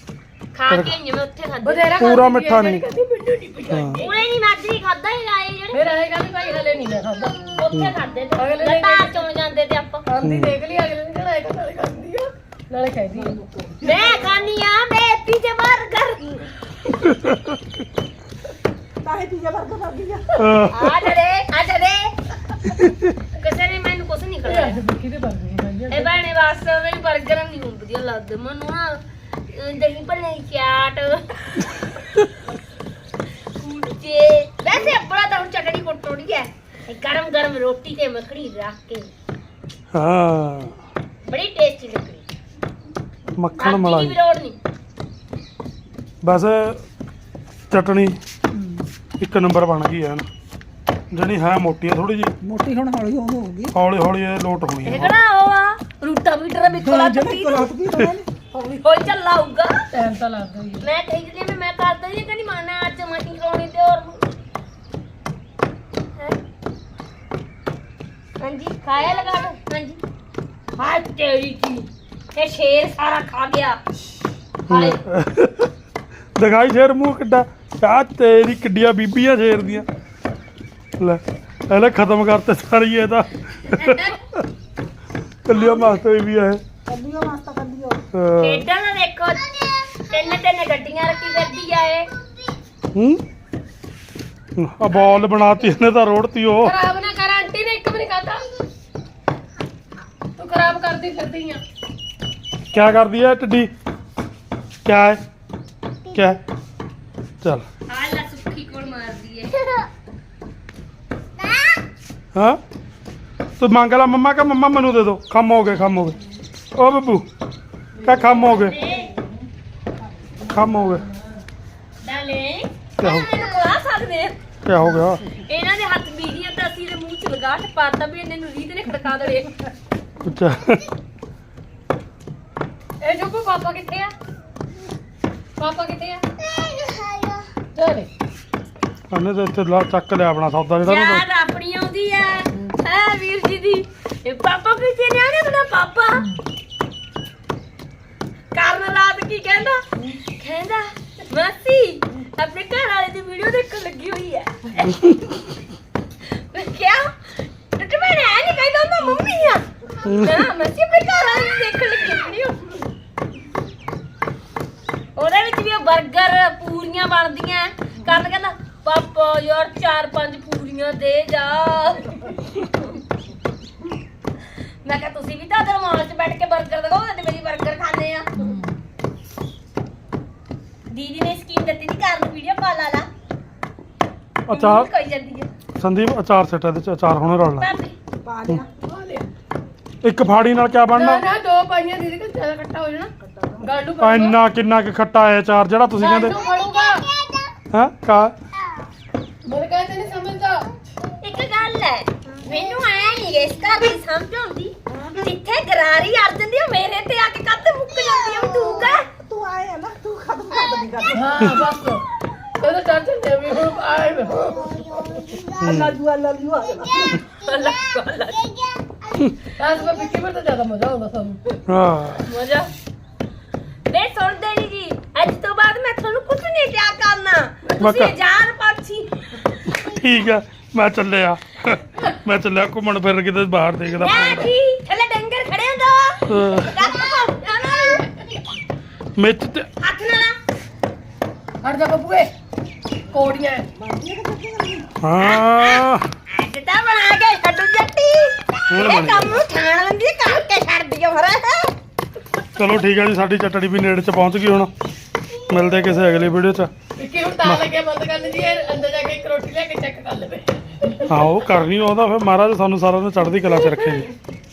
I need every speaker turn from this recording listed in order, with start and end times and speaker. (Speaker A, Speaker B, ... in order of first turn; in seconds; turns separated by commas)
Speaker A: 0.5-2.1, Speaker B: 0.7-1.0, Speaker C: 1.6-4.2, Speaker B: 2.0-2.9, Speaker B: 3.7-4.0, Speaker A: 4.0-5.8, Speaker C: 5.7-7.4, Speaker A: 7.4-10.0, Speaker B: 7.7-8.0, Speaker C: 8.4-9.2, Speaker C: 10.1-13.4, Speaker B: 10.2-10.6, Speaker D: 13.1-14.4, Speaker A: 13.8-16.5, Speaker B: 16.9-17.6, Speaker D: 19.0-20.4, Speaker B: 20.4-21.1, Speaker A: 20.7-22.2, Speaker B: 22.7-23.1, Speaker A: 23.3-24.8, Speaker C: 24.4-26.2, Speaker A: 25.9-31.9, Speaker A: 33.6-39.1, Speaker B: 39.9-40.8, Speaker A: 41.2-42.3, Speaker B: 43.3-44.2, Speaker A: 43.6-44.6, Speaker B: 46.2-46.8, Speaker B: 47.7-48.2, Speaker D: 48.5-48.9, Speaker B: 49.2-50.3, Speaker B: 51.1-52.3, Speaker D: 52.4-53.7, Speaker B: 53.7-55.1, Speaker A: 54.9-57.7, Speaker D: 56.8-59.1, Speaker A: 58.8-59.8, Speaker C: 59.9-60.9, Speaker A: 60.8-64.3, Speaker A: 68.4-70.0, Speaker A: 70.8-73.8, Speaker A: 74.7-75.0, Speaker B: 74.7-75.7, Speaker B: 76.4-79.9, Speaker B: 81.0-84.5, Speaker A: 83.8-84.2, Speaker B: 85.5-86.6, Speaker D: 86.9-88.0, Speaker B: 88.1-88.7, Speaker A: 88.4-92.1, Speaker B: 93.0-93.2, Speaker B: 94.6-96.7, Speaker C: 96.6-98.5, Speaker C: 100.4-101.6, Speaker B: 102.7-103.7, Speaker B: 104.8-105.2, Speaker B: 106.1-106.4, Speaker A: 107.9-109.9, Speaker B: 112.3-112.6, Speaker B: 113.6-116.2, Speaker B: 116.7-117.3, Speaker B: 118.0-118.8, Speaker A: 118.1-119.2, Speaker B: 120.5-121.1, Speaker A: 122.0-124.4, Speaker B: 123.0-123.3, Speaker B: 124.7-125.3, Speaker A: 125.4-129.6, Speaker B: 130.2-130.8, Speaker C: 133.0-134.1, Speaker C: 135.6-136.2, Speaker A: 136.6-137.4, Speaker C: 137.7-138.1, Speaker B: 139.1-141.2, Speaker A: 140.8-146.3, Speaker A: 148.5-149.8, Speaker A: 150.4-155.1, Speaker A: 156.5-157.1, Speaker A: 157.6-162.8, Speaker B: 160.1-160.4, Speaker A: 165.2-172.5, Speaker A: 174.8-178.3, Speaker C: 178.4-178.8, Speaker A: 180.9-183.1, Speaker B: 184.5-184.9, Speaker A: 184.5-185.5, Speaker B: 185.8-187.7, Speaker A: 187.6-188.0, Speaker D: 188.2-188.7, Speaker C: 188.8-189.3, Speaker B: 190.0-191.3, Speaker C: 190.9-194.4, Speaker D: 193.2-193.6, Speaker B: 194.0-196.4, Speaker C: 196.0-197.1, Speaker B: 197.7-198.3, Speaker C: 199.4-200.7, Speaker A: 201.2-209.1, Speaker D: 204.9-205.3, Speaker D: 209.2-211.6, Speaker C: 211.1-212.0, Speaker C: 212.6-215.2, Speaker D: 214.7-217.2, Speaker B: 215.6-216.0, Speaker A: 217.3-218.5, Speaker C: 219.6-221.6, Speaker B: 221.7-222.3, Speaker A: 222.3-222.7, Speaker A: 223.9-229.5, Speaker B: 227.8-228.2, Speaker B: 229.7-234.5, Speaker A: 233.9-238.1, Speaker B: 236.3-236.8, Speaker B: 239.2-239.7, Speaker A: 239.8-240.4, Speaker C: 241.6-242.3, Speaker C: 243.1-243.7, Speaker D: 243.8-244.9, Speaker B: 245.0-246.1, Speaker A: 245.2-251.7, Speaker B: 248.7-249.4, Speaker B: 252.6-254.7, Speaker B: 255.5-256.7, Speaker C: 257.0-261.1, Speaker B: 261.1-264.1